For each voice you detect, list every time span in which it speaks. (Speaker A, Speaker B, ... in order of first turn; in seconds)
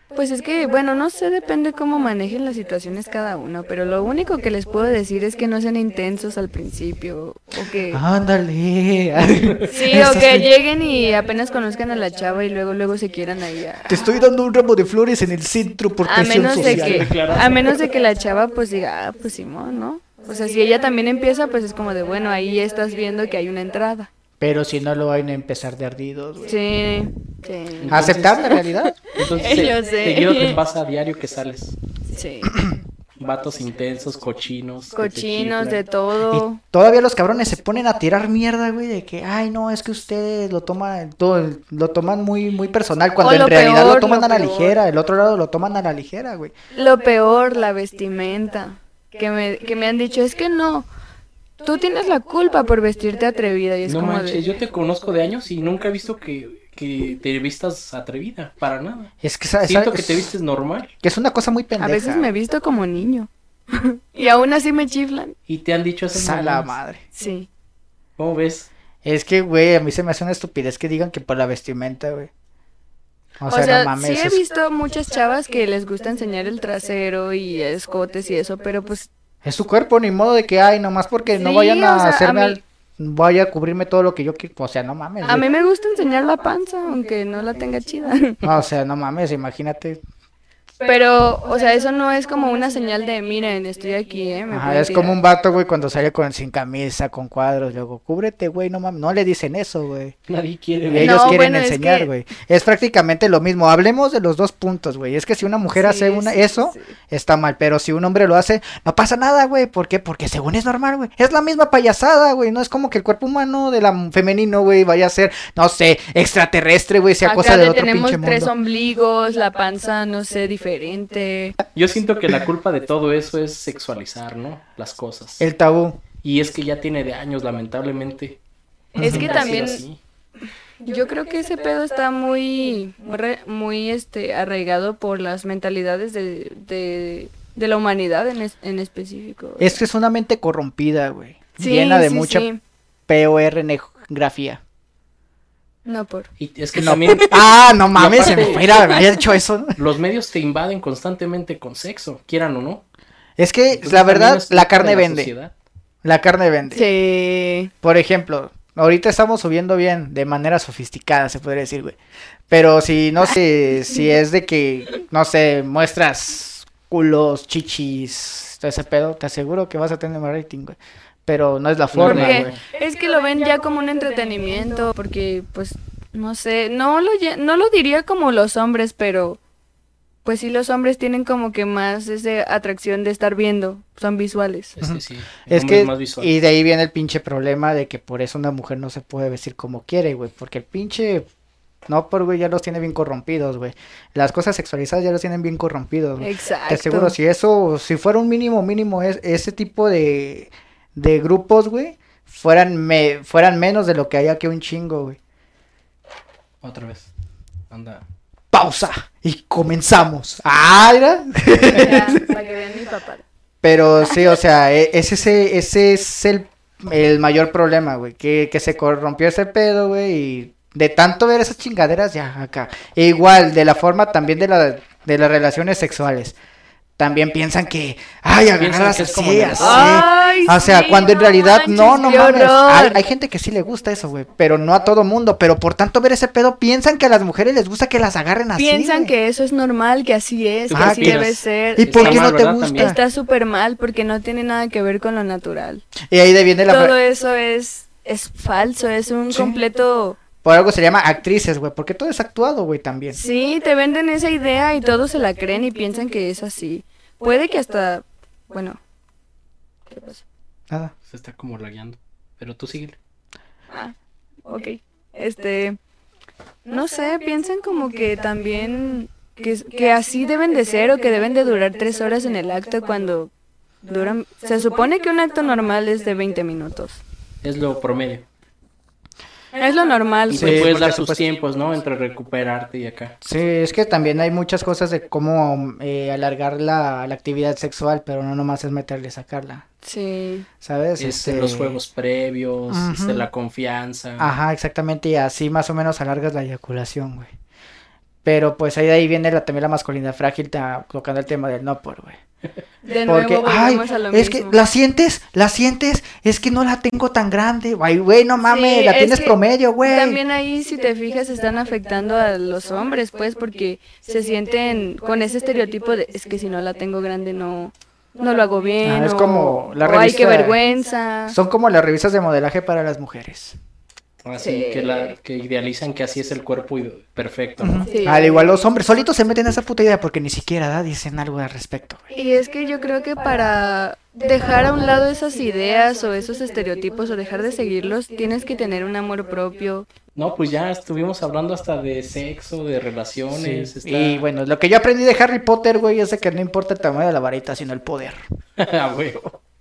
Speaker A: 0.1-8.0, 9.7-14.1, 16.0-24.1, 26.4-30.6, 32.1-32.6, 34.9-36.6, 43.2-44.8, 46.7-50.9, 51.6-54.5, 61.8-65.3, 67.2-67.5, 73.5-79.1, 81.3-82.6, 85.2-88.4, 90.8-95.2, 101.0-102.1, 105.7-106.9, 117.2-121.6, 128.9-129.8, 130.8-139.8, 141.6-142.6, 145.9-146.3, 148.8-149.0, 156.7-157.7, 172.0-179.4, 180.2-184.8, 196.2-197.2, 211.6-213.2, 229.6-233.0, 238.6-245.8, 246.7-250.2, 253.1-258.8, 259.9-260.2, 264.4-265.8, 266.6-273.3, 273.8-277.0, 279.5-280.7, 289.8-290.5, 302.9-304.6, 308.4-321.4, 324.4-325.1, 327.9-328.6, 332.1-339.9
Speaker B: 7.9-10.5, 13.9-17.2, 24.4-26.6, 27.9-29.0, 36.3-46.5, 59.2-60.3, 61.0-62.3, 66.1-67.0, 69.0-72.3, 73.4-74.4, 79.4-85.5, 88.4-90.0, 94.5-100.2, 100.9-118.5, 125.4-126.0, 129.0-129.5, 139.6-142.5, 143.1-144.6, 146.8-149.8, 153.4-155.3, 156.0-156.8, 157.8-162.0, 162.5-172.5, 184.8-191.3, 191.9-205.2, 208.5-212.2, 213.6-226.4, 227.0-239.1, 240.7-241.2, 241.8-243.0, 246.1-246.9, 249.3-249.6, 250.4-253.2, 280.3-281.2, 283.2-289.6, 290.6-291.8, 292.7-293.3, 294.2-297.3, 298.2-302.2, 303.1-310.2, 318.8-320.6, 321.3-323.6, 327.6-332.0, 343.3-348.2
Speaker C: 16.4-17.6, 27.8-28.5, 29.1-31.8, 33.2-35.8, 53.9-59.1, 59.6-60.9, 65.5-66.7, 68.2-68.7, 100.3-101.4, 121.8-125.5, 126.2-128.4, 129.0-130.0, 146.4-148.9, 149.8-152.8, 153.7-155.5, 171.9-172.6, 184.8-186.3, 206.6-207.1, 207.7-208.0, 228.6-230.0, 240.7-242.9, 261.1-263.0, 277.4-278.3, 280.3-283.1, 291.0-294.3, 324.2-327.9, 340.1-344.2, 348.6-349.4